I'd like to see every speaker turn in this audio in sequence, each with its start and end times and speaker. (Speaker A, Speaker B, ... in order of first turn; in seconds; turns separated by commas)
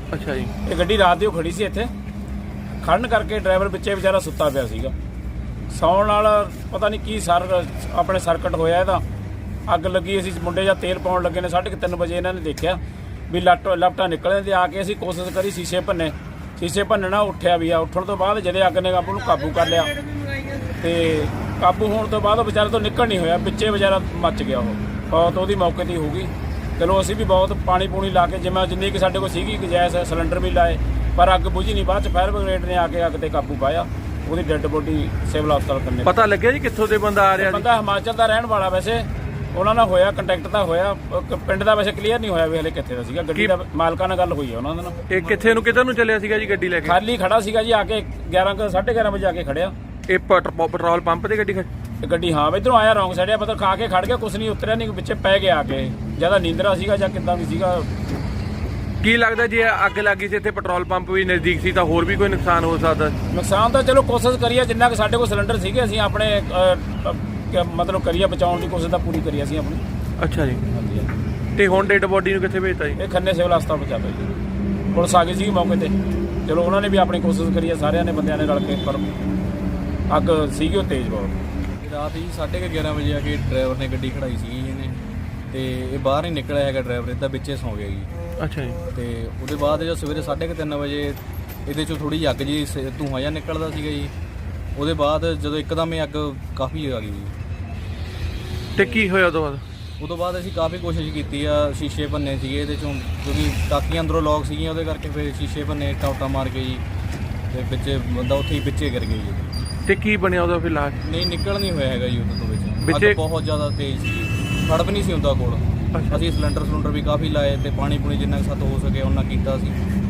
Speaker A: 0.1-0.5, Speaker B: 0.6-1.9, Speaker B: 2.8-4.9, Speaker B: 5.7-9.0, Speaker B: 9.7-36.1, Speaker A: 36.0-37.6, Speaker B: 37.3-45.0, Speaker A: 45.1-47.0, Speaker B: 46.8-49.7, Speaker A: 50.1-51.7, Speaker B: 52.0-57.9, Speaker A: 59.0-63.1, Speaker B: 63.3-69.8, Speaker A: 70.2-70.6, Speaker B: 70.7-71.1, Speaker A: 71.5-73.0, Speaker B: 73.0-74.3, Speaker B: 74.9-75.9, Speaker B: 76.5-79.0, Speaker B: 80.1-81.4, Speaker C: 81.8-88.1, Speaker A: 88.4-88.8, Speaker C: 88.9-94.1, Speaker C: 94.7-97.3, Speaker A: 98.8-99.6, Speaker C: 98.8-99.0, Speaker C: 100.0-106.8, Speaker C: 107.5-109.5, Speaker A: 109.8-111.0, Speaker C: 111.0-119.8, Speaker A: 112.8-113.2, Speaker A: 115.9-116.2